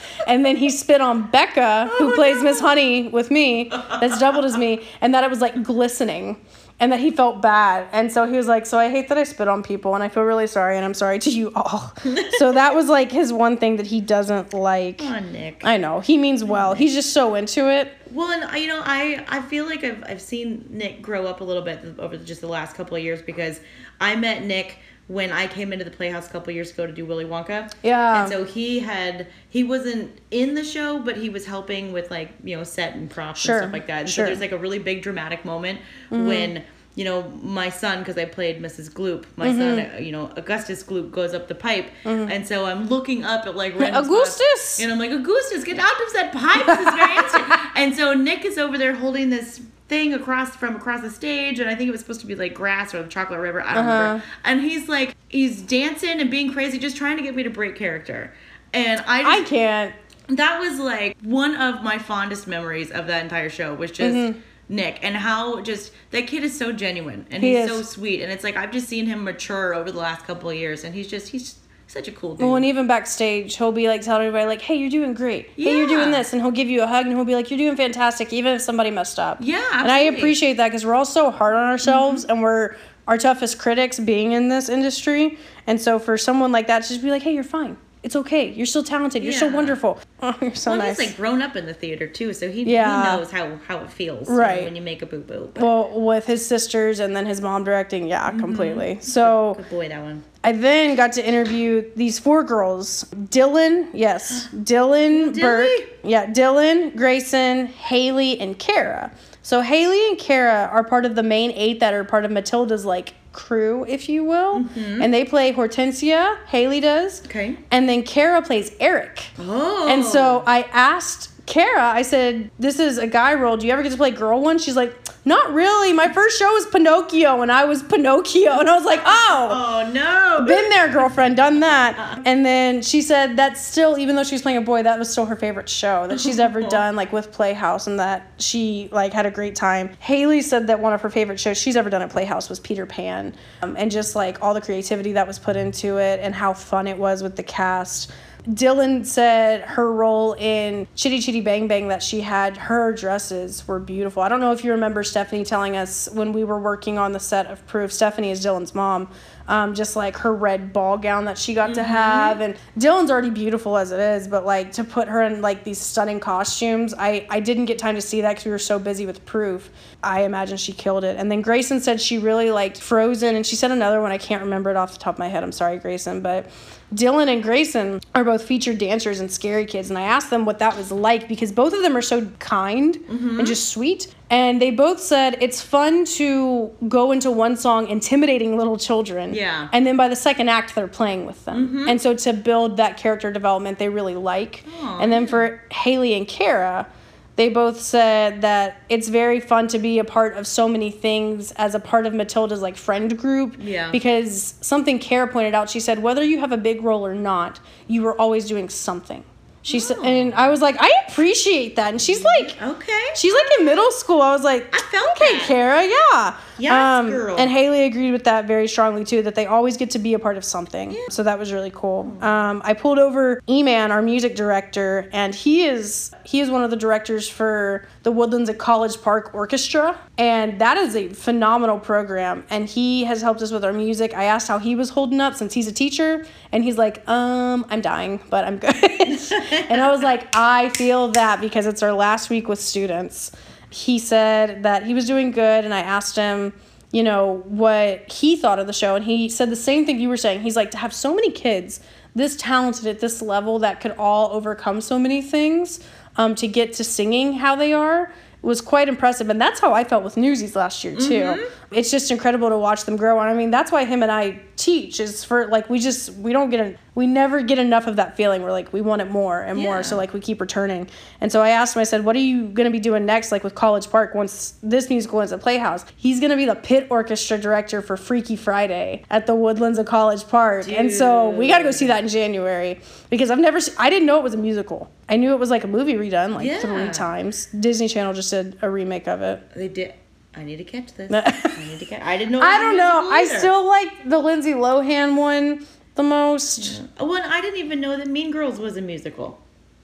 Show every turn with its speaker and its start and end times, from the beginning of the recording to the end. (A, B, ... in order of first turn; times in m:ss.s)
0:00.2-0:18.0 A
0:02.1-0:02.3 B
0:12.1-0:12.5 B
0:15.0-0:15.7 B
0:16.5-0:16.9 B
0:18.1-0:59.5 B
0:27.8-0:28.4 A
0:33.4-0:34.4 A
0:36.1-0:36.5 A
0:39.4-0:39.9 A
0:42.0-0:42.3 A
0:43.8-0:44.8 A
0:46.6-0:47.3 A
0:53.7-0:54.2 A
0:59.2-0:59.9 A
1:00.3-1:12.7 B
1:04.0-1:04.4 A
1:07.4-1:07.8 A
1:12.4-1:31.1 A
1:15.6-1:16.2 B
1:19.4-1:20.4 B
1:21.8-1:22.2 B
1:29.2-1:29.8 B
1:30.6-1:35.7 B
1:32.6-1:33.2 A
1:34.3-1:34.7 A
1:35.6-1:39.6 A
1:38.3-1:40.2 B
1:40.4-1:59.3 A
1:45.1-1:45.9 B
1:54.5-1:55.1 B
1:57.2-1:57.6 B
1:59.4-2:00.4 B
1:59.9-2:09.6 A
2:09.0-2:10.7 B
2:10.4-3:32.6 A
2:16.1-2:16.8 B
2:41.6-2:42.4 B
3:03.1-3:03.6 B
3:09.3-3:09.7 B
3:11.5-3:12.0 B
3:14.7-3:15.4 B
3:23.6-3:24.0 B
3:29.6-3:30.4 B
3:32.1-3:33.9 B
3:33.1-4:49.4 A
3:34.7-3:35.6 B
3:36.6-3:37.5 B
3:42.0-3:42.4 B
3:59.3-3:59.8 B
4:21.0-4:21.5 B
4:29.5-4:30.0 B
4:40.6-4:42.0 B
4:46.4-4:47.1 B
4:49.5-4:53.5 B
4:51.1-4:51.6 A
4:52.4-4:56.8 A
4:56.6-4:59.4 B